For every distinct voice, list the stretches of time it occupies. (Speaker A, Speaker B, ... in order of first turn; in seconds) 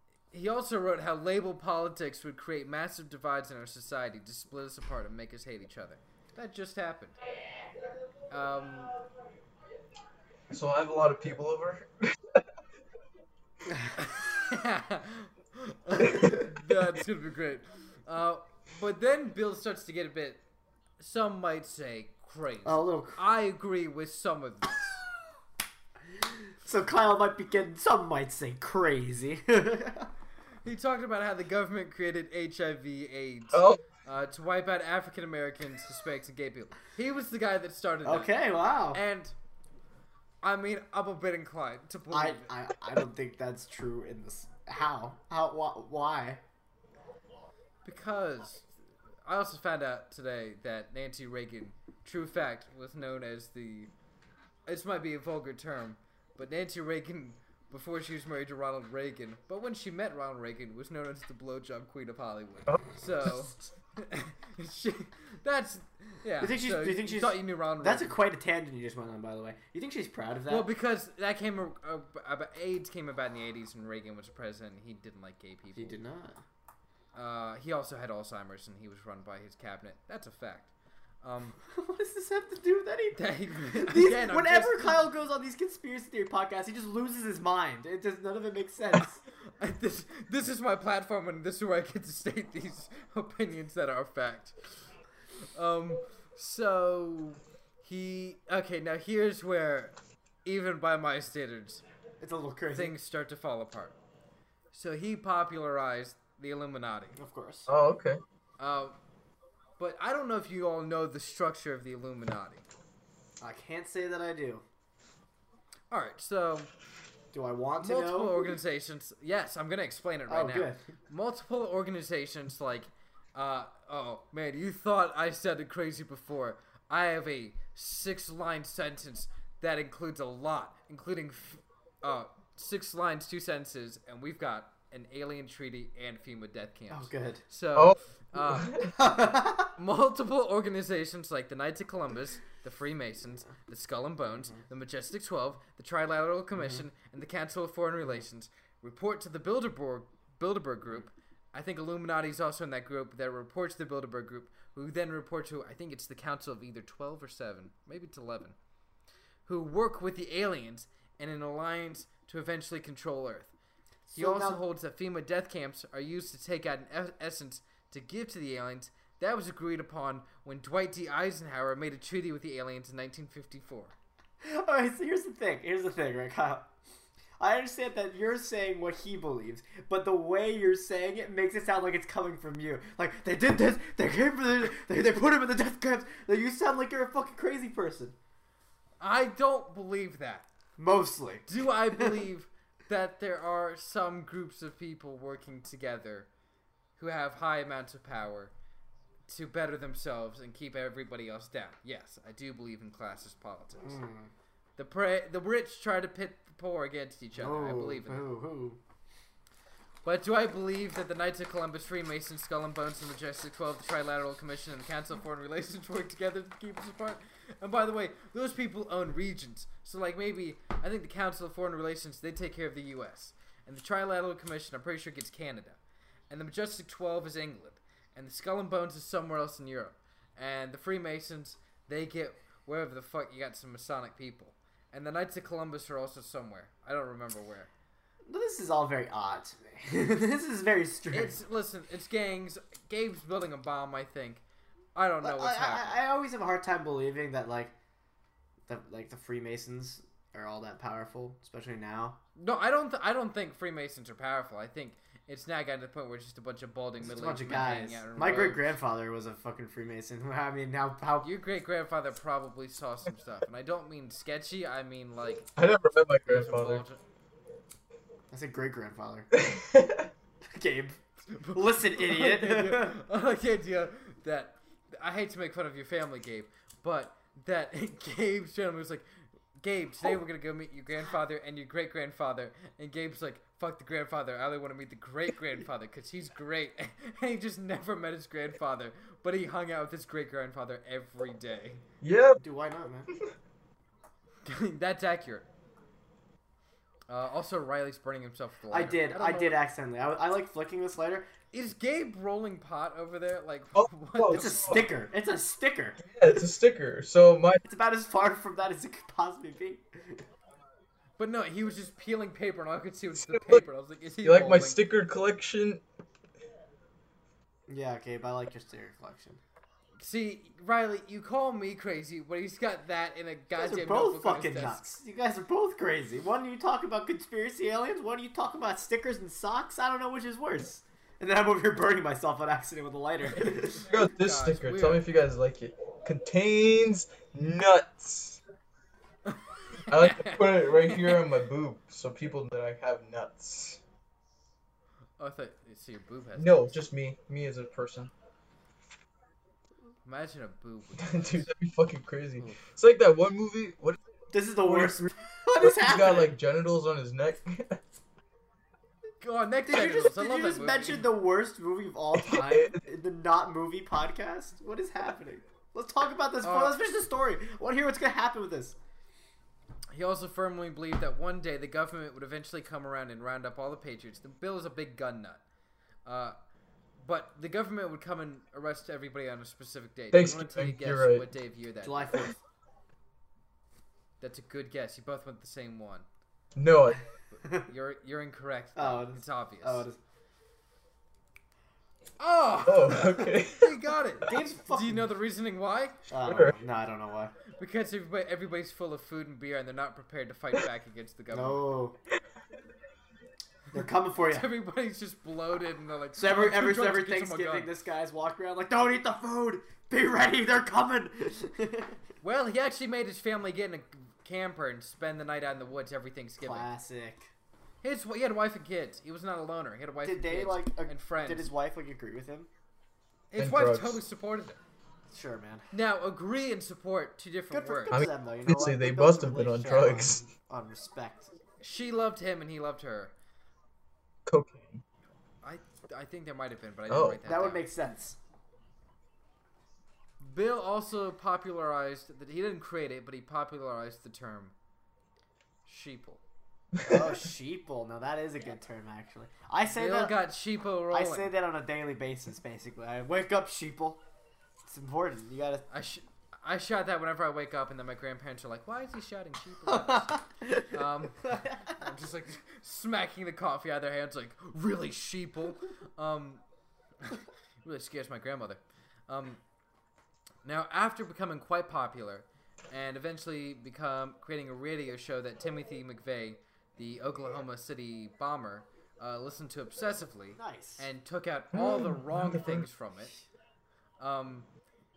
Speaker A: 0.3-7.2, 8.3-8.9, 14.0-20.4, 21.0-25.0, 30.6-38.4, 38.9-39.4, 40.4-42.5, 47.9-48.7, 49.3-53.9, 54.7-68.2, 70.5-76.0, 77.2-80.7, 81.2-81.6, 83.2-85.1, 89.6-94.9, 95.5-101.8, 102.7-104.0, 104.7-107.2, 108.6-109.0, 109.8-112.7, 115.9-116.7, 117.8-138.8, 139.8-158.6, 159.5-163.5, 164.2-173.9, 189.0-190.5, 191.5-196.3, 197.0-198.5, 199.3-204.0, 204.8-208.3, 210.1-225.8, 226.3-237.7, 241.1-244.4, 244.9-246.0, 252.4-258.7, 261.2-265.5, 266.2-267.0, 271.3-279.1, 279.6-291.8, 294.4-295.5, 297.1-299.6, 301.5-304.8, 311.2-314.8, 320.0-324.9, 333.7-335.1, 339.3-341.2, 345.2-346.7, 350.1-351.5, 359.2-361.1, 366.4-366.8, 369.9-375.4, 376.1-376.4, 377.0-382.2, 384.2-386.1, 387.3-389.8, 392.2-396.0, 397.6-401.6, 404.3-407.7, 412.2-416.7, 417.8-421.5, 423.3-424.6, 425.7-428.0, 431.6-433.1, 435.4-437.7, 440.2-444.5, 445.7-446.2, 449.7-451.3, 455.7-466.4, 467.0-469.4, 470.4-483.1, 484.0-484.5
Speaker B: 10.5-12.4, 33.5-33.8, 107.7-108.2, 137.8-138.9, 265.6-266.8, 269.4-270.1, 292.0-292.4, 303.8-304.9, 306.0-307.6, 313.2-313.6, 314.2-315.8, 333.8-338.4, 339.9-343.8, 346.4-348.1, 351.0-354.0, 354.6-355.1, 355.6-357.8, 362.3-362.8, 380.1-381.3, 386.6-387.0, 392.7-393.9, 396.2-396.6, 423.4-424.0, 427.9-430.2, 434.3-434.8, 436.9-437.2, 481.5-482.7
Speaker C: 22.6-23.2, 26.6-30.1, 38.0-39.0, 42.1-46.4, 66.4-70.7, 75.8-76.4, 81.7-89.2, 102.2-103.0, 107.2-107.7, 113.4-114.6, 117.3-118.6, 120.3-120.9, 136.9-137.4, 138.9-139.7, 146.6-146.8, 164.1-164.6, 174.4-176.7, 177.4-188.2, 190.8-192.2, 203.8-204.3, 207.4-208.8, 238.3-241.4, 245.2-247.7, 248.7-252.2, 257.0-261.3, 268.3-269.3, 270.5-271.0, 271.5-273.0, 292.4-293.1, 298.7-301.3, 304.3-306.0, 307.6-310.2, 317.7-319.4, 323.6-333.9, 354.3-356.4, 359.7-368.8, 381.8-382.4, 388.8-390.0, 394.2-395.1, 396.1-397.3, 401.3-402.0, 403.7-404.5, 406.2-412.0, 416.4-417.3, 420.0-422.5, 425.1-425.7, 427.5-431.4, 437.2-438.2, 446.8-450.2, 450.9-454.0, 454.7-455.7, 459.7-461.8, 480.4-480.9